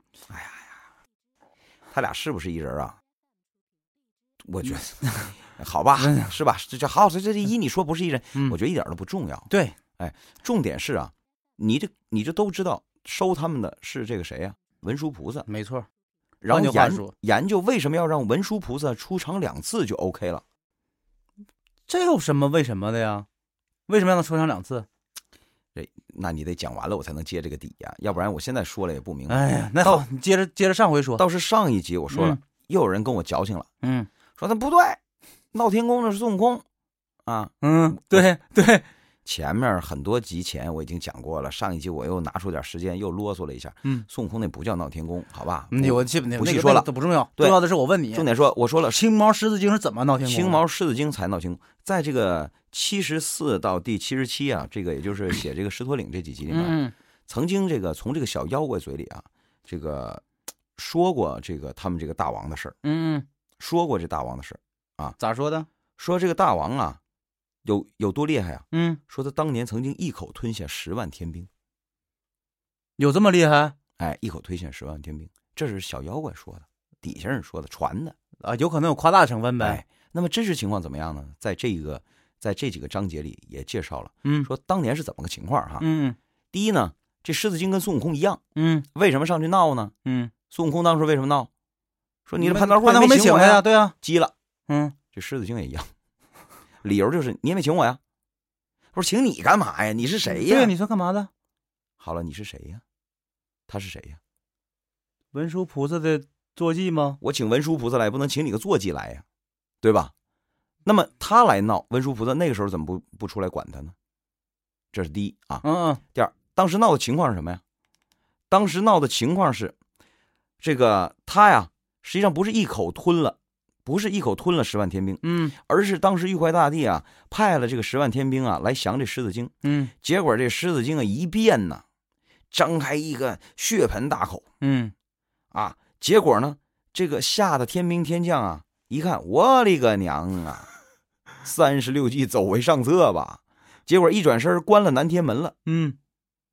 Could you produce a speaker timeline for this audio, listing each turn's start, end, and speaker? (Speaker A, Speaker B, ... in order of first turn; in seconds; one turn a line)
Speaker A: 0.3-0.7
Speaker A: 1.9-3.0
Speaker A: 4.4-15.5
Speaker B: 6.0-6.3
Speaker B: 9.5-9.8
Speaker B: 15.5-15.9
Speaker A: 16.4-20.4
Speaker B: 16.5-17.1
Speaker B: 21.9-23.2
Speaker B: 23.9-24.9
Speaker A: 25.7-30.0
Speaker B: 29.3-31.2
Speaker A: 31.2-33.7
Speaker B: 32.1-32.4
Speaker B: 33.8-34.1
Speaker A: 34.4-35.0
Speaker A: 35.5-36.6
Speaker A: 37.2-38.3
Speaker B: 37.6-38.8
Speaker A: 39.2-49.0
Speaker B: 45.7-48.3
Speaker B: 48.9-50.6
Speaker A: 50.2-60.2
Speaker B: 56.5-56.9
Speaker A: 60.8-62.8
Speaker B: 62.8-63.2
Speaker A: 63.6-65.2
Speaker B: 65.2-65.7
Speaker A: 66.0-67.0
Speaker A: 67.6-71.5
Speaker B: 68.7-69.0
Speaker B: 73.0-73.7
Speaker A: 74.0-78.2
Speaker B: 78.4-79.8
Speaker A: 79.6-85.8
Speaker B: 85.8-86.2
Speaker A: 86.5-88.4
Speaker B: 88.5-88.9
Speaker A: 88.9-89.9
Speaker B: 90.0-90.3
Speaker A: 90.5-91.5
Speaker A: 92.3-94.3
Speaker B: 92.4-93.9
Speaker B: 94.7-95.0
Speaker A: 95.1-95.9
Speaker A: 96.8-98.0
Speaker A: 98.9-100.7
Speaker B: 100.2-101.3
Speaker A: 102.0-102.8
Speaker A: 103.7-104.2
Speaker B: 105.3-107.2
Speaker A: 107.2-109.2
Speaker A: 109.8-110.1
Speaker A: 110.8-113.9
Speaker A: 114.9-117.6
Speaker B: 115.6-116.0
Speaker A: 118.5-119.7
Speaker A: 120.6-131.8
Speaker B: 125.2-125.5
Speaker B: 129.6-129.9
Speaker A: 132.5-134.4
Speaker B: 134.6-134.9
Speaker A: 135.5-140.7
Speaker A: 141.4-145.5
Speaker B: 145.7-146.0